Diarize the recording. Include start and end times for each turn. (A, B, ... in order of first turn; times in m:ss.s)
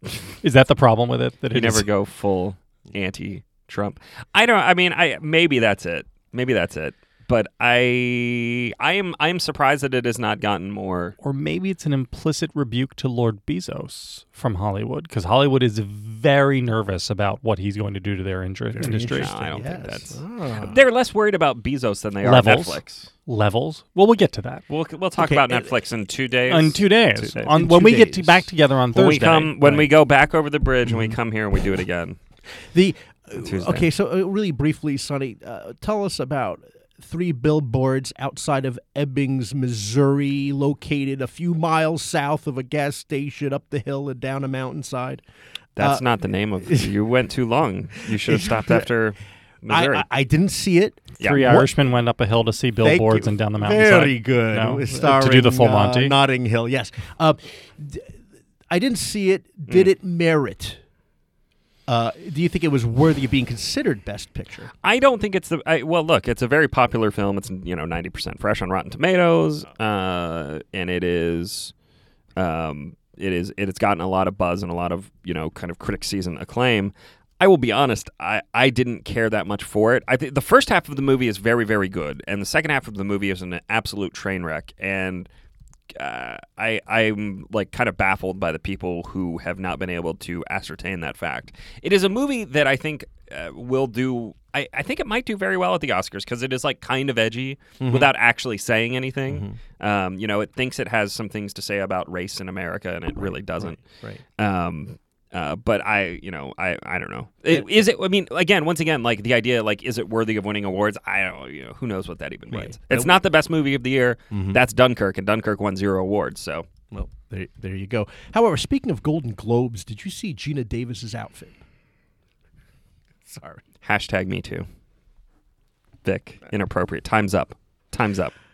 0:00.4-0:01.9 A
0:01.5-0:11.2 B
0:11.2-0:19.4 A
0:18.7-0:20.8 C
0:19.1-0:23.1 B
0:22.2-0:24.6 A
0:24.7-0:26.8 B
0:25.2-0:25.7 C
0:26.5-0:29.9 A
0:27.2-0:28.5 C
0:28.9-0:32.2 B
0:32.7-0:45.2 C
0:33.4-0:33.9 B
0:45.8-0:50.0 B
0:46.7-0:46.9 C
0:48.1-0:48.9 C
0:49.7-0:51.7 C
0:51.2-0:51.6 B
0:51.2-0:56.2 A
0:52.8-0:58.1 C
0:58.7-1:00.8 C
1:01.9-1:04.7 C
1:04.8-1:11.7 B
1:12.4-1:25.3 B
1:26.0-1:43.8 B
1:37.8-1:38.1 C
1:39.3-1:39.6 C
1:43.2-1:44.2 C
1:44.4-1:56.7 B
1:52.5-1:53.2 C
1:54.3-1:54.6 C
1:56.9-2:01.6 C
2:03.2-2:03.6 C
2:03.8-2:04.7 B
2:06.0-2:08.3 B